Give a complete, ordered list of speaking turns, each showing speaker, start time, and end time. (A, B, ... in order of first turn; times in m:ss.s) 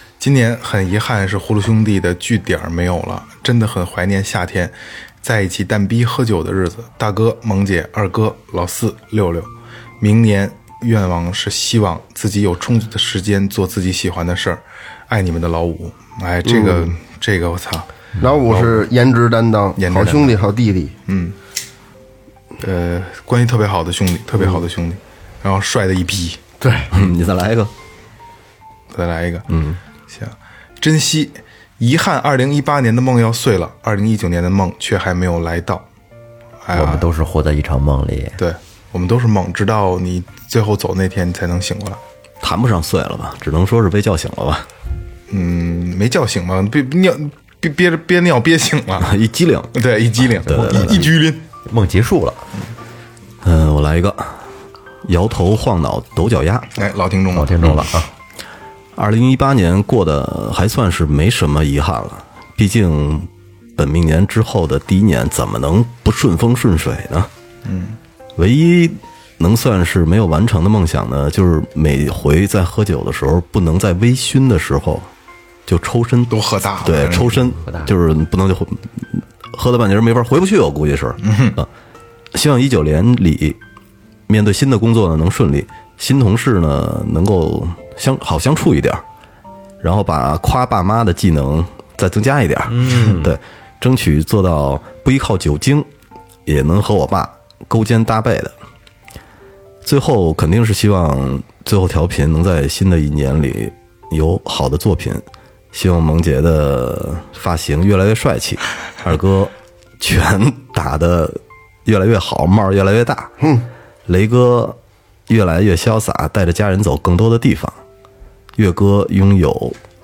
0:00.2-0:17.9 A
0:16.4-0:16.9 B
0:18.2-0:21.0 B
0:18.5-0:18.8 A
0:19.8-0:20.4 A
0:21.1-0:21.4 A
0:22.6-0:26.4 A
0:26.6-0:26.9 B
0:26.9-0:27.7 C
0:28.9-0:29.5 A
0:29.5-0:29.8 C
0:30.1-0:35.8 A
0:36.6-0:37.1 A
0:36.7-0:38.4 D
0:38.4-0:42.0 A
0:42.4-0:44.7 C
0:45.3-0:49.1 A
0:49.0-0:49.7 C
0:49.7-0:51.4 A
0:50.4-0:51.1 C
0:50.5-0:52.5 D
0:53.4-0:54.4 C
0:55.0-0:56.8 C
0:56.8-0:57.8 A
0:57.3-0:58.1 D
0:59.0-1:07.3 C
1:07.6-1:08.0 A
1:08.4-1:15.1 C
1:15.7-1:21.7 C
1:16.3-1:17.5 A
1:17.7-1:17.9 D
1:21.2-1:21.6 A
1:22.3-1:23.6 C
1:24.3-1:29.0 C
1:29.8-1:35.9 C
1:32.7-1:33.4 D
1:36.5-1:38.5 C
1:39.8-1:53.3 C
1:53.4-1:53.7 B
1:54.1-1:57.8 C
1:58.6-1:59.8 C